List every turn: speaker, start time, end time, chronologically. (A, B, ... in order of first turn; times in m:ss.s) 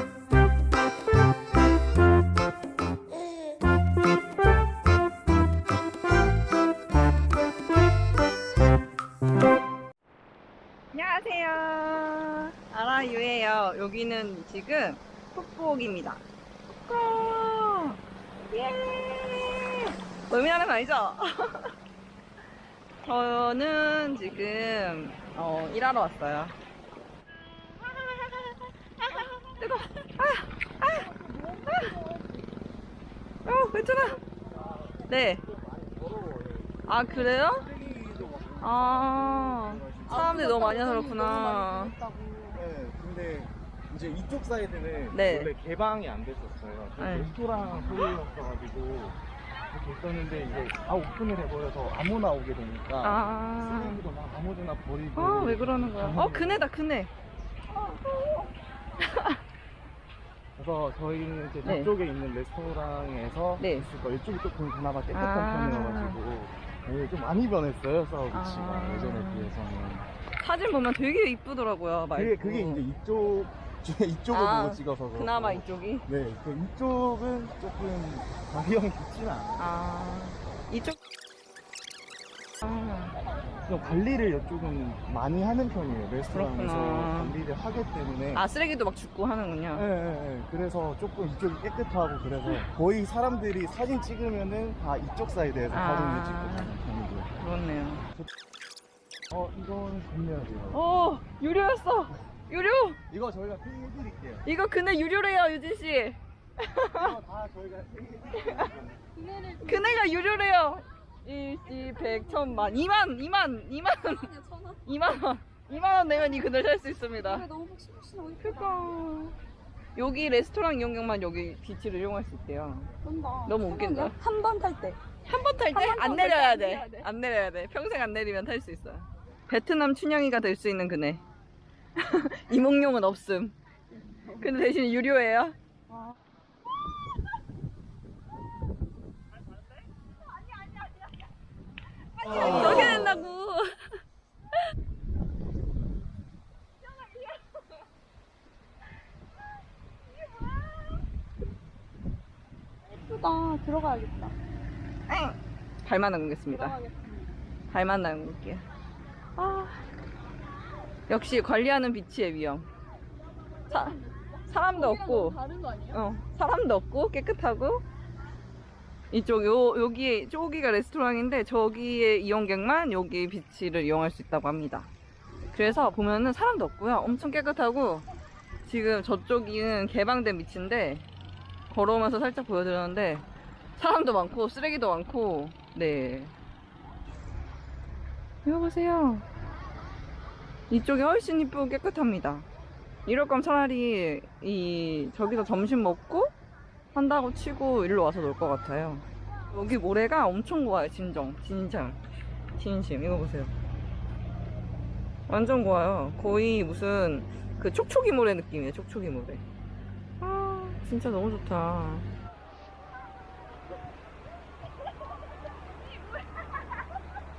0:10.9-0:18.0 A
0:18.5-0:21.7 A
0:23.0-0:26.6 A
0:28.2-0:28.5 A
0:29.0-0:31.1 A
0:30.8-0:32.6 B
0:31.7-0:31.9 A
0:33.5-0:34.2 A
0:35.1-0:35.4 A
0:35.5-0:40.6 C
0:36.9-0:37.7 A
0:38.6-0:41.9 A
0:40.1-0:42.6 B
0:42.6-0:49.2 C
0:45.1-0:45.5 A
0:47.0-0:48.1 A
0:49.7-0:56.7 C
0:53.0-0:54.0 A
0:55.2-0:57.1 A
0:57.7-0:59.4 A
1:00.6-1:10.1 C
1:01.6-1:01.9 A
1:03.6-1:03.9 A
1:05.1-1:06.2 A
1:08.3-1:09.5 A
1:10.4-1:12.8 A
1:12.1-1:19.7 C
1:14.3-1:16.1 A
1:19.6-1:21.0 A
1:22.6-1:23.2 A
1:23.7-1:28.4 C
1:26.3-1:27.4 A
1:28.4-1:29.8 A
1:29.7-1:37.3 C
1:35.7-1:36.8 A
1:37.4-1:38.0 A
1:39.3-1:40.8 C
1:40.7-1:43.0 A
1:43.1-1:44.5 C
1:44.4-1:47.2 A
1:46.9-1:49.0 C
1:48.4-1:48.7 A
1:49.1-1:50.2 B
1:49.6-1:57.5 A
1:52.0-1:52.8 B
1:54.0-1:54.8 B
1:57.2-1:59.0 B
1:58.4-1:59.4 A
2:00.0-2:02.9 A
2:03.0-2:05.0 B
2:03.4-2:04.2 A
2:05.3-2:11.2 A
2:05.6-2:07.1 B
2:12.0-2:13.6 A
2:14.1-2:14.4 B
2:14.4-2:15.6 A
2:15.9-2:16.2 B
2:22.2-2:24.0 A
2:22.2-2:23.1 B
2:32.9-2:34.4 B
2:35.1-2:36.8 A
2:36.5-2:37.4 B
2:37.7-2:38.6 A
2:39.4-2:39.8 B
2:41.1-2:42.7 A
2:43.7-2:45.4 A
2:43.8-2:46.0 B
2:45.9-2:47.8 A
2:49.1-2:54.9 A
2:55.5-2:58.1 A
2:58.6-3:01.0 A
3:01.7-3:06.3 A
3:08.4-3:09.2 A
3:10.7-3:12.5 A
3:13.1-3:16.3 A
3:16.9-3:22.0 A
3:22.6-3:23.5 A
3:25.3-3:29.4 A
3:30.2-3:32.1 A